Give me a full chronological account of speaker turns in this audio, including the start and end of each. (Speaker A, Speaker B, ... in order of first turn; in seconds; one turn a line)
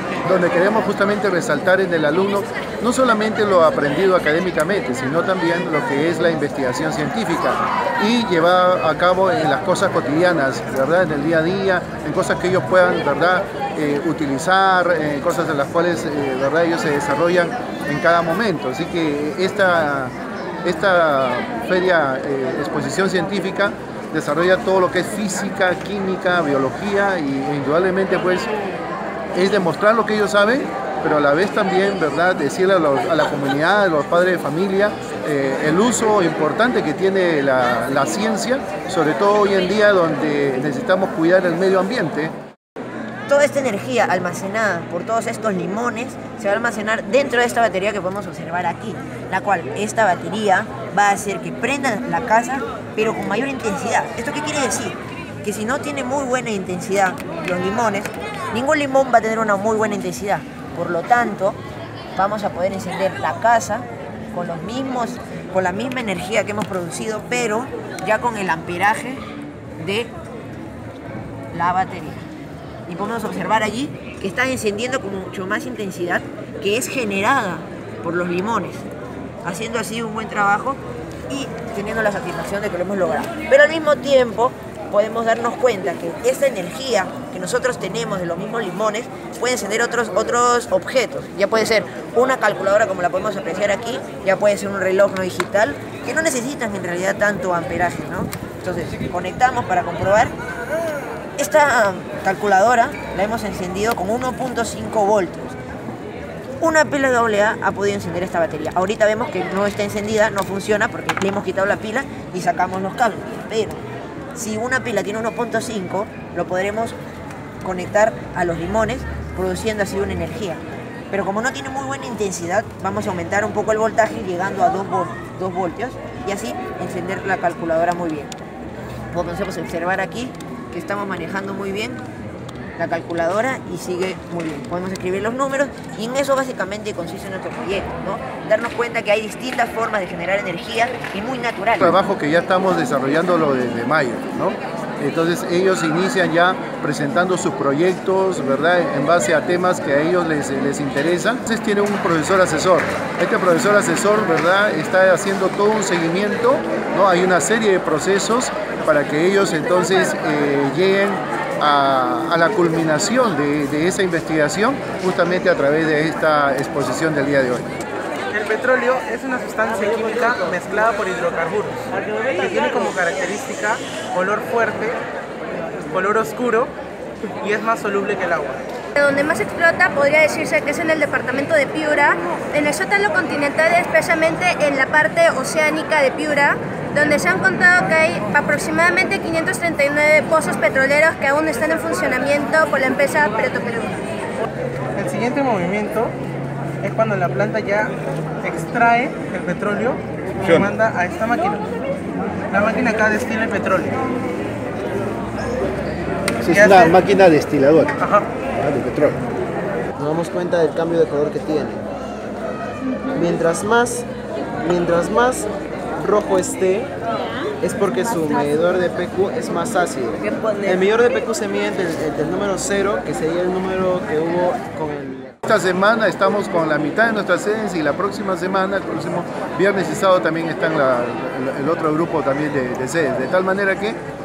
Speaker A: 0.2-28.5
Speaker A: 29.3-42.3
Speaker B: 43.3-61.6
Speaker B: 62.2-69.2
Speaker B: 69.8-70.1
Speaker B: 71.5-72.2
Speaker B: 72.9-78.9
Speaker B: 79.4-100.3
Speaker B: 101.4-105.6
Speaker B: 106.6-113.8
Speaker B: 114.3-117.0
Speaker B: 117.6-128.3
Speaker B: 129.1-132.0
Speaker B: 132.8-142.0
Speaker A: 141.8-167.7
Speaker C: 168.3-175.0
Speaker C: 175.9-176.7
Speaker C: 177.4-178.6
Speaker D: 179.0-194.0
Speaker C: 194.9-196.2
Speaker C: 196.8-201.7
Speaker C: 202.5-204.0
Speaker A: 206.4-208.0
Speaker C: 206.5-207.0
Speaker C: 208.0-208.3
Speaker A: 208.6-209.2
Speaker E: 210.0-211.8
Speaker E: 213.1-214.1
Speaker E: 214.6-216.9
Speaker E: 217.6-225.3
Speaker A: 225.5-234.0